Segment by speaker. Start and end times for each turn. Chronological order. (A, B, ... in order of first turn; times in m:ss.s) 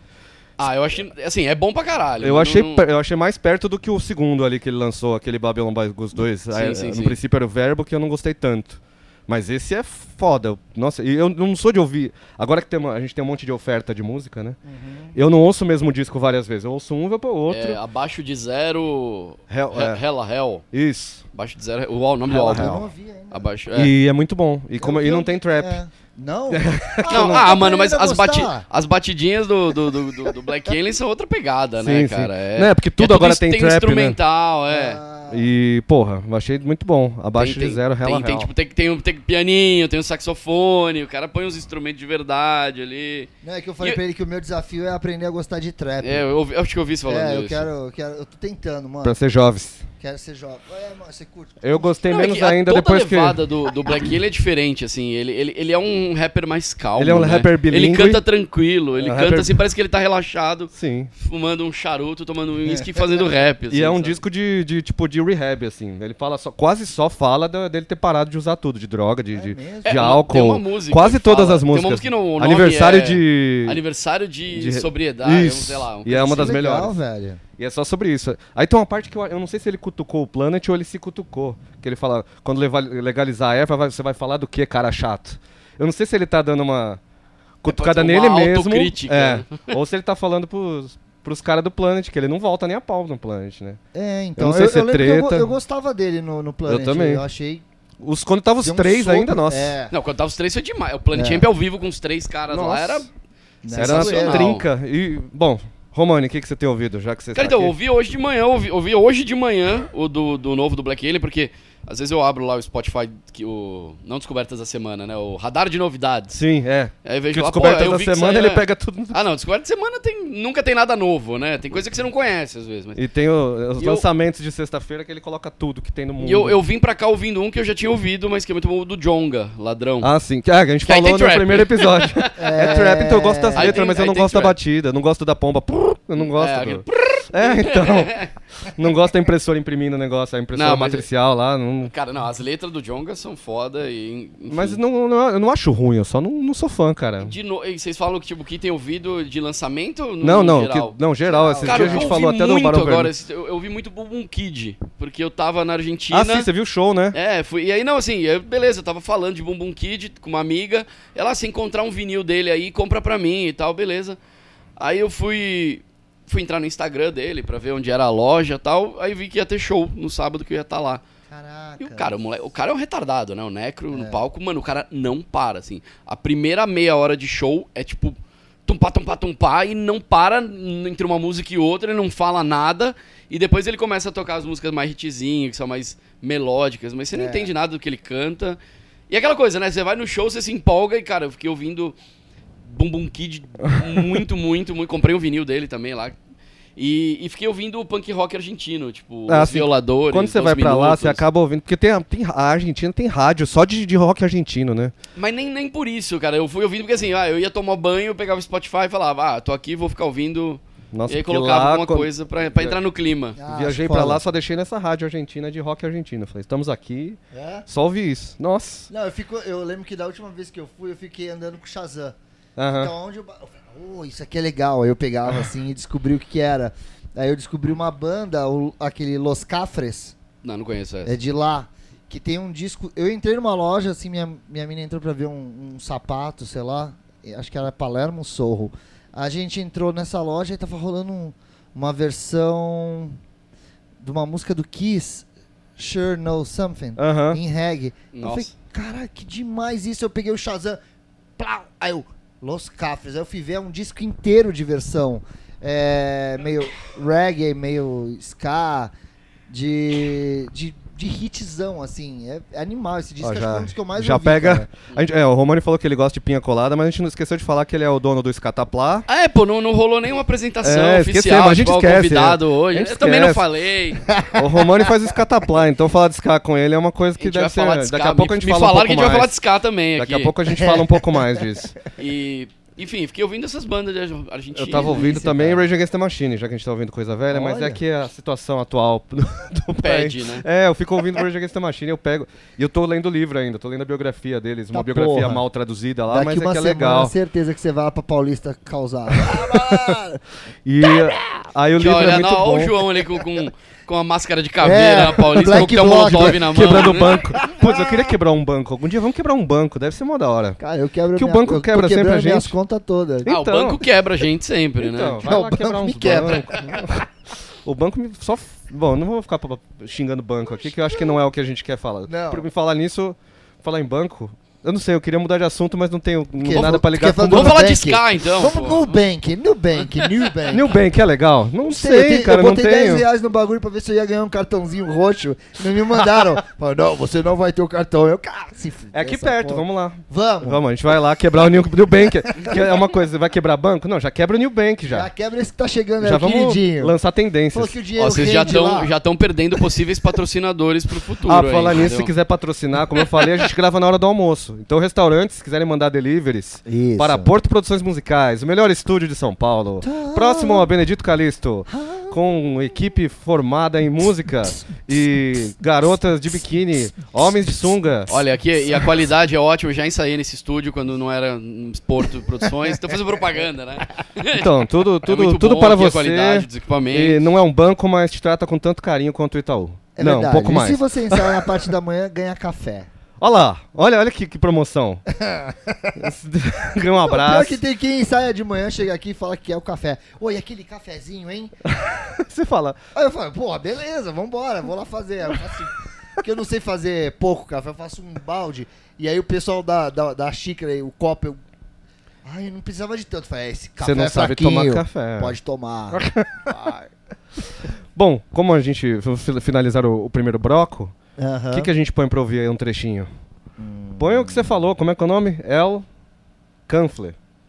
0:00.6-0:02.9 A
0:02.2-0:14.6 B
0:06.5-0:07.2 A
0:14.6-0:15.2 C
0:15.2-0:17.8 B
0:17.5-0:20.6 A
0:19.5-0:20.0 B
0:20.7-0:21.2 B
0:21.3-0:23.9 A
0:22.3-0:22.9 B
0:22.4-0:23.4 C
0:23.7-0:25.8 B
0:24.8-0:28.6 C
0:26.5-0:27.5 B
0:27.1-0:35.0 A
0:31.8-0:34.2 B
0:34.7-0:35.5 C
0:35.3-0:38.5 B
0:37.4-0:43.3 A
0:43.4-0:46.2 C
0:46.0-0:47.7 A
0:47.1-0:49.2 C
0:49.0-0:49.8 B
0:50.0-0:52.0 C
0:51.6-0:53.4 B
0:52.1-1:04.2 A
0:57.0-0:58.2 B
0:59.0-0:59.6 B
1:00.7-1:01.1 B
1:03.7-1:13.8 B
1:09.3-1:10.0 C
1:09.8-1:16.6 A
1:14.5-1:17.0 B
1:16.2-1:17.4 C
1:17.6-1:27.0 B
1:27.6-1:33.8 B
1:27.7-1:29.7 A
1:33.9-1:37.6 C
1:34.4-1:35.6 B
1:36.7-1:37.2 B
1:38.0-1:39.8 B
1:38.6-1:39.9 C
1:39.9-1:43.1 A
1:41.1-1:41.5 C
1:42.5-1:43.1 B
1:43.6-1:44.5 C
1:43.7-1:44.7 A
1:43.7-1:47.7 B
1:47.3-1:56.4 A
1:56.3-1:59.2 B
1:57.0-2:03.0 A
2:03.0-2:06.6 B
2:03.8-2:04.1 A
2:06.2-2:10.1 A
2:10.0-2:21.9 B
2:10.8-2:12.8 A
2:12.4-2:13.8 C
2:13.5-2:14.6 A
2:16.2-2:18.3 A
2:20.5-2:21.1 A
2:21.9-2:24.8 A
2:24.5-2:27.4 B
2:27.2-2:31.0 A
2:30.2-2:33.1 B
2:31.2-2:32.2 C
2:31.6-2:36.5 A
2:36.1-2:37.2 B
2:37.1-2:44.2 A
2:44.8-2:51.0 A
2:51.3-2:52.1 C
2:51.8-3:12.0 A
2:53.9-2:54.2 C
3:07.1-3:07.5 C
3:12.6-3:16.2 A
3:16.8-3:21.2 A
3:19.3-3:24.9 B
3:25.2-3:33.4 A
3:30.9-3:32.8 B
3:33.4-3:34.2 C
3:33.5-3:38.9 B
3:37.3-3:37.6 C
3:38.9-3:42.2 C
3:42.6-3:42.9 B
3:42.8-3:50.2 C
3:50.4-3:51.2 A
3:51.0-4:03.2 C
4:04.0-4:05.2 C
4:05.8-4:10.8 C
4:07.0-4:07.4 B
4:08.1-4:08.5 A
4:11.4-4:18.9 C
4:19.5-4:24.7 C
4:23.2-4:29.1 B
4:29.1-4:34.0 A
4:30.6-4:33.4 B
4:34.1-4:34.9 C
4:34.3-4:39.4 B
4:37.2-4:40.3 A
4:40.0-4:41.8 B
4:40.5-4:41.2 C
4:42.0-4:45.6 A
4:44.6-4:57.1 B
4:44.8-4:45.6 C
4:47.3-4:47.8 C
4:49.8-4:50.4 A
4:54.7-4:55.4 C
4:56.1-5:00.2 C
4:59.2-5:00.0 B
5:00.6-5:02.8 B
5:01.8-5:07.2 A
5:04.6-5:08.1 C
5:05.4-5:10.6 B
5:10.6-5:13.3 C
5:11.2-5:12.6 B
5:13.2-5:13.8 B
5:13.3-5:15.2 A
5:14.8-5:17.1 B
5:15.2-5:16.9 C
5:17.6-5:27.7 B
5:22.1-5:22.4 C
5:26.4-5:30.8 C
5:26.5-5:28.9 A
5:30.5-5:33.0 B
5:31.7-5:40.6 C
5:38.9-5:45.1 B
5:44.9-5:47.0 C
5:46.0-5:47.8 B
5:47.5-5:48.9 C
5:48.0-5:52.1 A
5:51.3-6:08.2 B
5:56.7-5:57.3 C
5:59.8-6:00.7 C
6:01.7-6:02.2 C
6:08.1-6:14.5 A
6:14.3-6:21.6 B
6:15.0-6:17.2 A
6:20.0-6:22.9 C
6:23.2-6:25.0 B
6:25.2-6:26.0 C
6:26.0-6:27.6 B
6:27.0-6:31.6 C
6:31.7-6:32.8 B
6:33.0-6:41.4 C
6:42.2-6:46.9 C
6:43.8-6:45.4 B
6:45.9-6:46.6 B
6:48.0-6:50.9 B
6:51.2-6:51.7 C
6:51.5-6:53.1 B
6:53.6-6:54.5 C
6:54.0-6:55.9 B
6:56.7-6:57.2 B